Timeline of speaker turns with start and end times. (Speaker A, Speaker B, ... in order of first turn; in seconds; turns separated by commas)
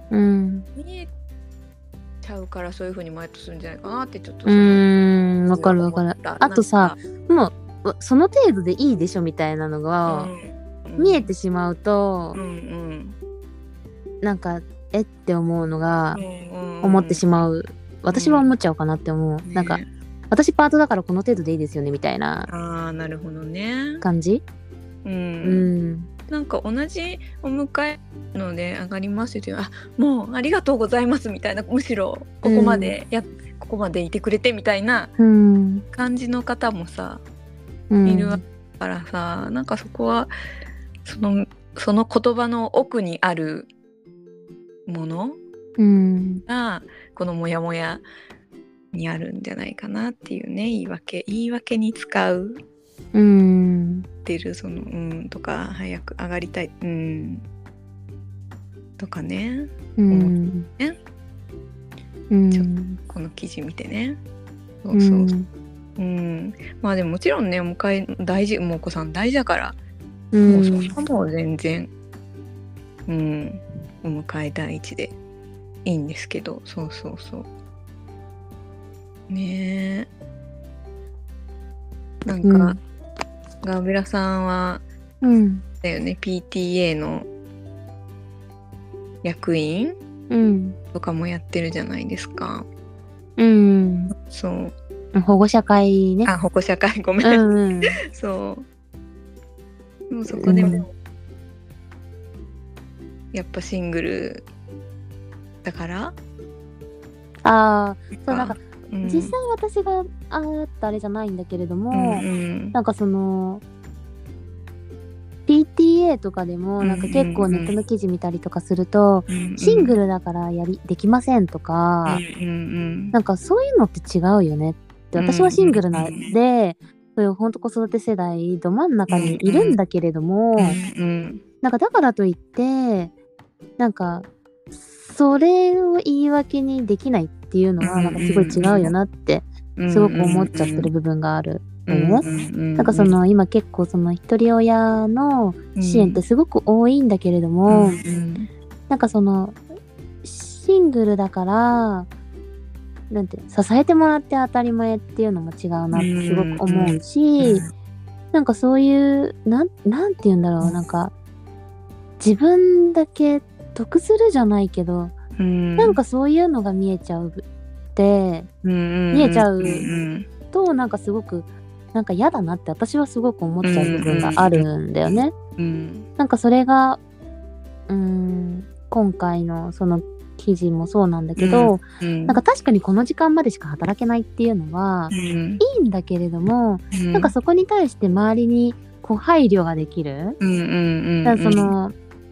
Speaker A: 0.1-0.7, Speaker B: 0.7-1.1, Speaker B: 2.2-4.9, Speaker A: 4.5-10.3, Speaker B: 5.5-7.0, Speaker B: 10.1-11.3, Speaker A: 11.0-12.4, Speaker B: 12.3-13.2, Speaker A: 14.2-16.2, Speaker B: 16.1-17.2, Speaker A: 16.8-19.8, Speaker B: 18.1-18.4, Speaker B: 19.4-19.9, Speaker A: 20.3-22.5, Speaker B: 22.5-24.0, Speaker A: 24.0-24.4, Speaker B: 25.0-25.7, Speaker A: 25.4-26.1, Speaker B: 26.3-35.1, Speaker A: 32.4-32.9, Speaker A: 35.2-35.8, Speaker B: 35.9-37.2, Speaker A: 37.9-38.4, Speaker B: 38.0-40.3, Speaker B: 41.0-43.7, Speaker B: 44.9-45.4, Speaker A: 45.8-46.4, Speaker B: 46.5-48.0, Speaker B: 48.9-52.6, Speaker A: 53.1-54.0, Speaker B: 54.2-57.5, Speaker B: 59.0-61.0, Speaker A: 60.0-60.7, Speaker A: 62.3-63.0, Speaker B: 62.5-64.2, Speaker B: 64.8-65.3, Speaker A: 64.9-65.5, Speaker B: 66.0-69.8, Speaker A: 70.3-70.9, Speaker B: 70.5-71.9, Speaker B: 73.1-75.2, Speaker B: 75.8-77.5, Speaker B: 79.3-80.1, Speaker B: 82.2-82.8, Speaker A: 82.4-82.8, Speaker B: 83.6-84.8, Speaker A: 85.2-85.6, Speaker B: 85.8-87.3, Speaker B: 89.2-90.0, Speaker A: 90.3-90.8, Speaker B: 90.9-92.7, Speaker A: 93.4-94.1, Speaker B: 94.2-94.7, Speaker A: 95.1-96.3, Speaker B: 96.2-97.4, Speaker A: 97.2-98.0, Speaker B: 98.1-98.7, Speaker B: 100.1-100.9, Speaker A: 100.3-100.8, Speaker B: 103.3-104.4, Speaker B: 105.6-106.2, Speaker A: 107.4-113.6, Speaker B: 108.2-109.3, Speaker B: 111.9-112.8, Speaker A: 115.5-122.2, Speaker B: 116.8-117.7, Speaker B: 119.3-120.0, Speaker B: 122.0-123.1, Speaker A: 123.1-130.8, Speaker B: 125.2-126.3, Speaker B: 129.1-129.8, Speaker B: 130.6-131.4, Speaker A: 131.6-133.1, Speaker A: 133.8-142.2, Speaker B: 137.8-138.9, Speaker B: 139.8-140.9, Speaker B: 141.9-143.1, Speaker A: 142.8-148.0, Speaker B: 145.8-146.2, Speaker B: 147.7-148.5, Speaker A: 148.9-149.6, Speaker A: 150.2-152.1, Speaker A: 153.1-157.6, Speaker B: 155.9-157.7, Speaker A: 158.3-161.1, Speaker A: 162.2-165.1, Speaker B: 165.4-166.0, Speaker A: 165.8-167.4, Speaker A: 167.9-168.5, Speaker B: 168.6-170.3, Speaker A: 169.1-169.9, Speaker A: 170.5-175.3, Speaker B: 173.6-174.6, Speaker B: 175.6-176.1, Speaker A: 176.2-177.0, Speaker A: 177.9-190.4, Speaker B: 181.4-182.4, Speaker B: 185.1-185.6, Speaker B: 186.9-187.3, Speaker B: 190.4-191.7, Speaker A: 191.2-191.9